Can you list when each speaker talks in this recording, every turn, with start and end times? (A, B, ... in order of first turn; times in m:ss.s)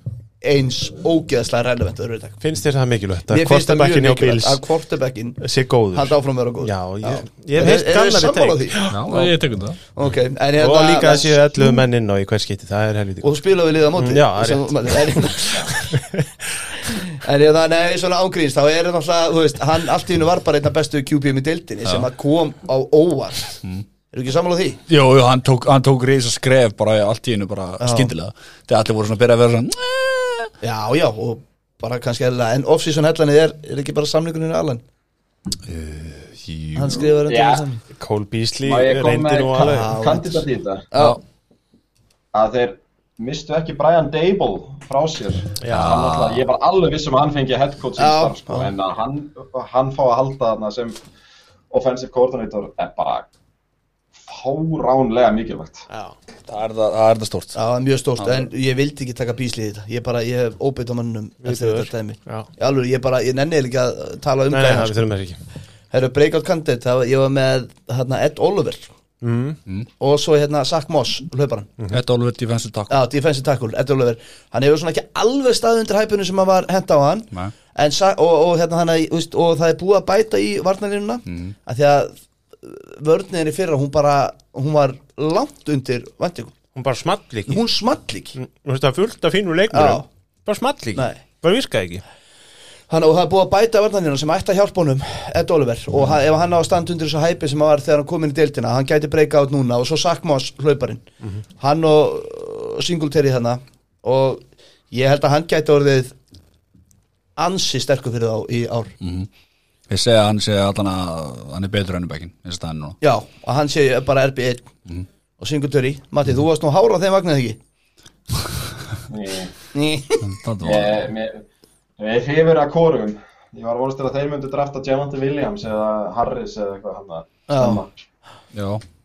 0:00.4-0:02.4 A
0:02.4-0:04.6 B
0:03.3-0:05.4 A
0:05.4-0:09.0 B
0:05.9-0:09.3 A
0:08.9-0:09.8 C
0:09.9-0:11.8 A
0:10.6-0:13.4 B
0:13.2-0:15.9 A
0:13.9-0:16.6 B
0:16.9-0:24.8 A
0:24.9-0:30.5 C
0:27.8-0:28.1 A
0:30.6-0:34.8 A
0:35.6-0:37.1 C
0:36.7-0:37.8 A
0:37.3-0:37.6 D
0:37.9-0:40.0 B
0:38.6-0:40.9 D
0:39.6-0:41.2 A
0:42.3-0:51.0 D
0:45.6-0:46.0 B
0:45.7-0:46.4 C
0:48.0-0:48.7 A
0:51.7-0:53.3 D
0:54.2-0:55.8 D
0:55.9-0:56.1 B
0:56.5-0:57.6 C
0:57.5-1:04.9 A
0:58.2-0:58.5 C
1:01.4-1:02.5 B
1:04.5-1:05.4 B
1:05.9-1:08.9 A
1:09.2-1:09.6 B
1:10.0-1:11.7 A
1:11.9-1:13.0 C
1:12.9-1:26.5 A
1:21.3-1:21.5 C
1:26.7-1:27.6 B
1:27.5-1:28.3 A
1:28.4-1:32.0 B
1:29.7-1:30.0 A
1:30.9-1:31.2 A
1:32.9-1:41.0 A
1:41.6-1:46.1 A
1:47.4-1:48.9 A
1:49.0-1:49.3 C
1:49.9-1:53.0 C
1:53.0-1:54.7 A
1:55.4-1:57.6 A
1:59.1-1:59.5 D
1:59.7-2:00.3 A
2:00.2-2:01.1 C
2:00.6-2:01.4 D
2:02.0-2:07.9 D
2:07.5-2:07.8 A
2:08.5-2:08.8 C